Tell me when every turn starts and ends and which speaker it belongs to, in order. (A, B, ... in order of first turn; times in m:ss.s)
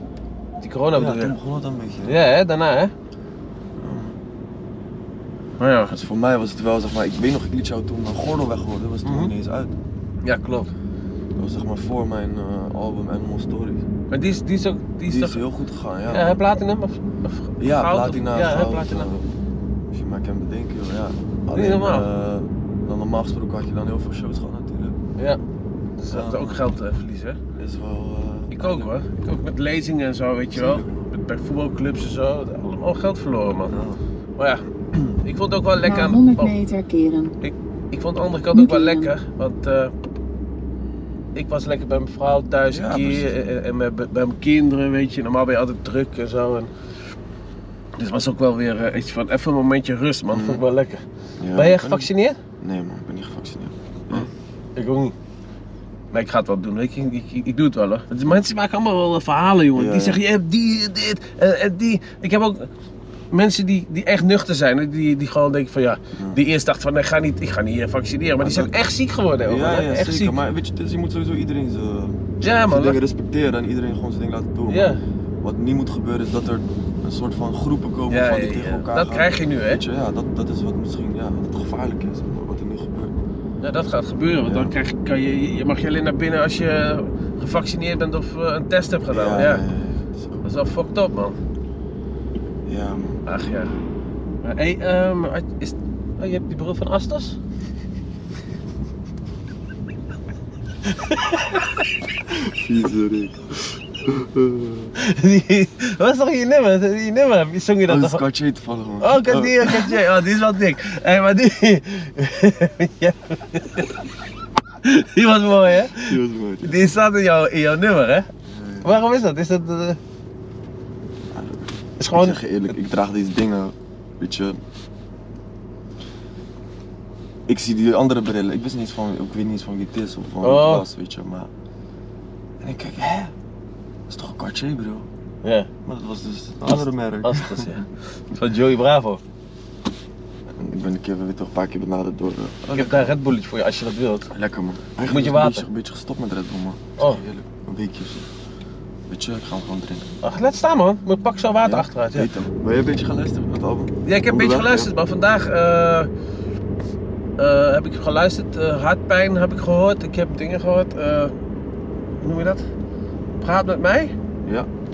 0:00.6-0:01.4 A
0:00.9-0:02.2 B
0:02.0-0:02.9 A
0:03.8-0:04.2 B
0:05.6-0:06.0 A
0:05.9-0:09.8 B
0:09.0-0:09.3 A
0:10.2-0:10.7 A
0:11.4-0:13.9 B
0:14.1-0:15.4 A
0:15.0-0:16.4 B
0:16.1-0:19.2 A
0:17.6-0:19.3 B
0:19.9-0:25.0 B
0:21.5-0:22.1 A
0:26.0-0:27.4 A
0:26.1-0:26.7 B
0:27.6-0:28.9 B
0:28.5-0:33.7 A
0:30.5-0:31.0 B
0:33.7-0:34.0 B
0:34.4-0:34.6 A
0:35.2-0:36.6 A
0:35.8-0:37.3 C
0:37.4-0:39.9 A
0:38.5-0:39.1 C
0:41.3-0:46.7 A
0:42.6-0:43.4 B
0:48.0-0:51.0 A
0:50.3-0:50.6 B
0:51.4-0:54.3 B
0:51.5-0:52.4 A
0:54.8-0:55.1 A
0:56.1-1:02.7 A
0:59.7-1:00.2 B
1:03.3-1:10.4 A
1:06.1-1:06.4 B
1:08.4-1:08.7 B
1:09.4-1:23.1 B
1:12.4-1:13.0 A
1:14.7-1:15.0 A
1:18.1-1:19.8 A
1:23.6-1:29.6 A
1:24.4-1:24.7 B
1:29.1-1:30.5 B
1:30.4-1:31.4 A
1:32.6-1:33.2 B
1:33.2-1:33.7 A
1:34.4-1:37.4 A
1:40.9-1:41.8 A
1:42.2-1:44.9 B
1:45.0-1:48.2 A
1:47.8-1:50.0 B
1:49.0-1:53.9 A
1:54.8-1:58.3 A
1:56.0-1:56.9 B
1:58.5-1:59.0 B
1:58.8-2:00.0 A
2:01.3-2:04.6 B
2:02.0-2:02.4 A
2:07.5-2:11.5 B
2:10.4-2:10.9 A
2:12.6-2:13.3 B
2:14.1-2:15.1 B
2:15.4-2:15.7 A
2:15.8-2:17.8 B
2:16.6-2:19.2 A
2:20.5-2:23.2 B
2:22.7-2:24.3 A
2:24.3-2:28.3 B
2:25.0-2:25.7 A
2:29.1-2:30.1 B
2:30.2-2:32.3 A
2:31.6-2:34.9 B
2:34.0-2:36.1 A
2:37.4-2:41.3 A
2:42.2-2:42.6 A
2:43.4-2:44.1 A
2:44.4-2:44.7 B